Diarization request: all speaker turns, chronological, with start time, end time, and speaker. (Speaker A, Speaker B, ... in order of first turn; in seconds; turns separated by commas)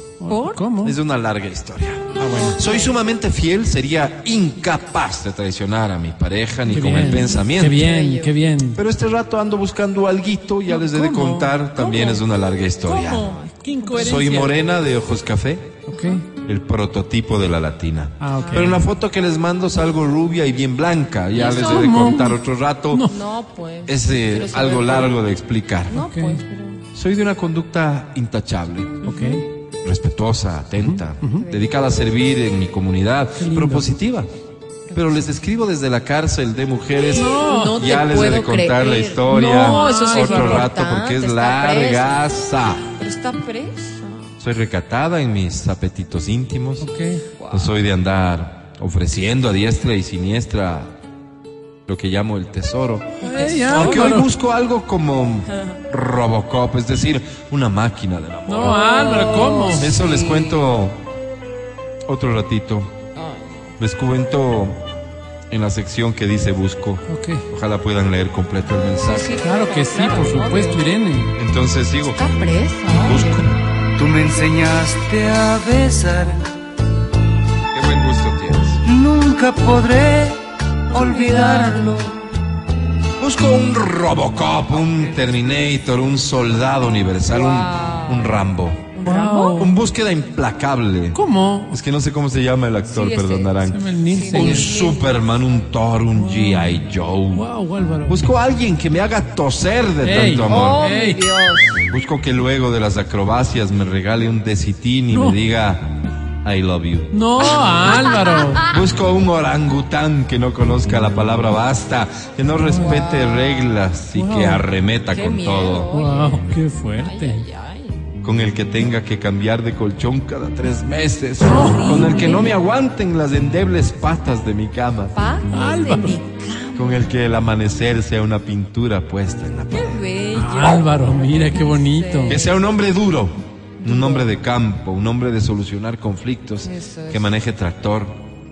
Speaker A: 0.2-1.0, Speaker B: 0.3-0.6, Speaker C: 0.8-7.9, Speaker A: 2.1-2.6, Speaker B: 2.3-2.9, Speaker A: 6.7-8.8, Speaker B: 6.8-8.4, Speaker C: 8.8-13.3, Speaker A: 10.7-11.6, Speaker B: 11.8-12.2, Speaker B: 12.8-14.5, Speaker A: 12.8-14.6, Speaker C: 14.0-15.7, Speaker A: 15.9-16.2, Speaker B: 15.9-16.2, Speaker C: 16.4-23.1, Speaker A: 18.2-18.9, Speaker B: 18.3-18.7, Speaker A: 21.4-22.4, Speaker B: 21.4-21.8, Speaker B: 23.1-25.2, Speaker C: 23.9-26.0, Speaker B: 25.9-26.8, Speaker A: 26.0-26.4, Speaker C: 26.9-29.1, Speaker B: 29.0-29.4, Speaker A: 29.0-29.4, Speaker C: 29.8-34.3, Speaker A: 30.8-31.4, Speaker B: 31.3-31.8, Speaker A: 33.4-33.9, Speaker B: 34.9-35.3, Speaker C: 34.9-42.9, Speaker B: 37.0-42.2, Speaker A: 37.1-37.8, Speaker A: 39.3-40.7, Speaker B: 43.0-44.4, Speaker C: 44.4-46.9, Speaker A: 46.8-47.2, Speaker B: 47.4-47.8, Speaker C: 47.5-50.9, Speaker C: 51.9-59.0, Speaker B: 53.2-54.2, Speaker A: 53.2-54.3, Speaker B: 55.5-55.8, Speaker A: 58.5-59.9, Speaker B: 58.6-60.6, Speaker C: 59.7-61.0, Speaker C: 62.1-62.9, Speaker B: 63.1-63.8, Speaker C: 63.8-64.8, Speaker C: 65.5-69.4, Speaker A: 67.1-67.5, Speaker B: 69.0-70.9, Speaker A: 69.4-71.4, Speaker C: 71.3-72.3, Speaker B: 72.1-73.5, Speaker C: 72.9-73.5, Speaker D: 73.9-76.4, Speaker C: 77.7-78.8, Speaker D: 78.8-80.4, Speaker D: 80.9-82.2, Speaker B: 80.9-81.9, Speaker C: 83.2-88.9, Speaker B: 87.3-89.7, Speaker A: 89.0-89.7, Speaker C: 89.6-97.5, Speaker A: 91.1-91.8, Speaker B: 92.9-95.2, Speaker A: 93.7-94.7, Speaker A: 96.1-96.8, Speaker A: 97.3-98.3, Speaker C: 98.1-100.9, Speaker A: 100.0-101.2, Speaker B: 100.5-101.8, Speaker C: 101.9-105.9, Speaker A: 105.1-105.4, Speaker C: 106.4-107.1, Speaker A: 107.1-108.7, Speaker B: 107.4-108.8, Speaker C: 108.7-115.9, Speaker A: 112.6-113.0, Speaker B: 112.8-113.5, Speaker A: 114.1-114.6, Speaker B: 115.1-118.0, Speaker A: 115.9-117.5, Speaker C: 118.2-125.2, Speaker B: 121.4-122.5, Speaker A: 121.5-122.2, Speaker B: 125.1-127.1, Speaker A: 125.5-126.2, Speaker C: 126.7-130.1, Speaker B: 129.7-132.6, Speaker A: 130.3-132.4, Speaker C: 132.3-138.2, Speaker B: 133.8-134.3, Speaker B: 136.6-137.3